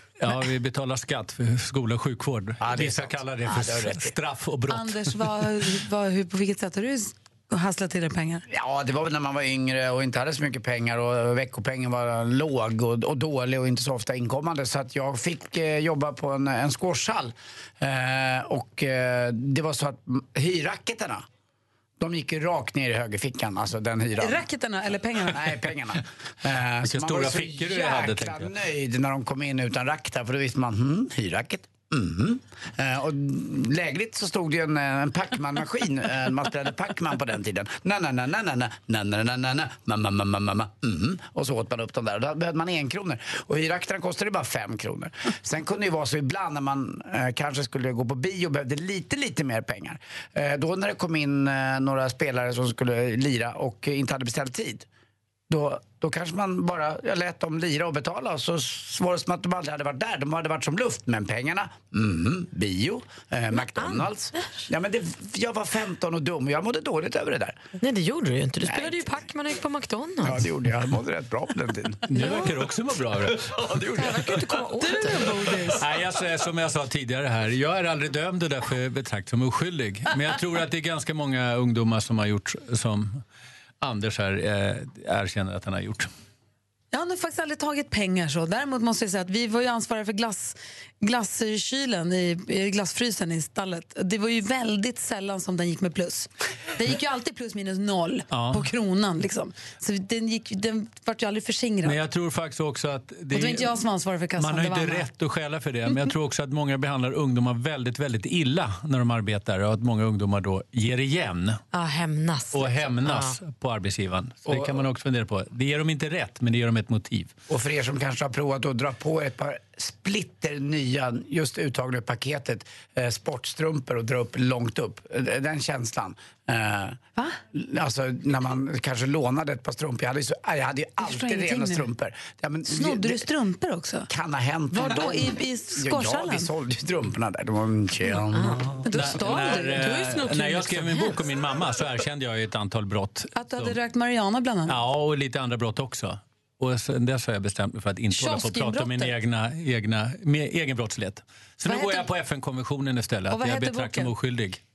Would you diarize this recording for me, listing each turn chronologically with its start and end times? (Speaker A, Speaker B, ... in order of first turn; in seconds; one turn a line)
Speaker A: 0.2-5.1
Speaker B: 2.6-4.2
Speaker C: 4.7-8.4
Speaker B: 8.5-21.2
Speaker B: 22.0-24.4
Speaker C: 24.2-25.4
Speaker B: 25.2-54.9
Speaker A: 26.8-28.5
Speaker B: 55.5-67.6
Speaker D: 63.5-64.6
Speaker D: 67.8-70.5
Speaker B: 68.6-69.1
Speaker B: 70.2-72.0
Speaker A: 72.1-73.8
Speaker D: 72.2-72.5
Speaker D: 73.9-75.4
Speaker C: 74.8-75.8
Speaker A: 75.7-83.2
Speaker A: 83.8-86.1
Speaker C: 86.9-102.0
Speaker A: 98.3-98.7
Speaker A: 101.8-103.8
Speaker C: 103.3-105.1
Speaker A: 104.4-111.6
Speaker D: 111.7-113.4
Speaker A: 112.5-117.3
Speaker B: 114.5-114.8
Speaker B: 117.5-127.0
Speaker B: 127.5-133.2
Speaker C: 131.0-131.9
Speaker C: 132.6-134.1
Speaker B: 134.1-138.7
Speaker C: 134.7-136.5
Speaker D: 138.1-141.2
Speaker C: 138.8-139.9
Speaker A: 138.9-143.8
Speaker C: 143.3-144.8
Speaker A: 144.7-154.6
Speaker C: 148.1-149.1
Speaker C: 151.6-152.1
Speaker C: 153.3-154.1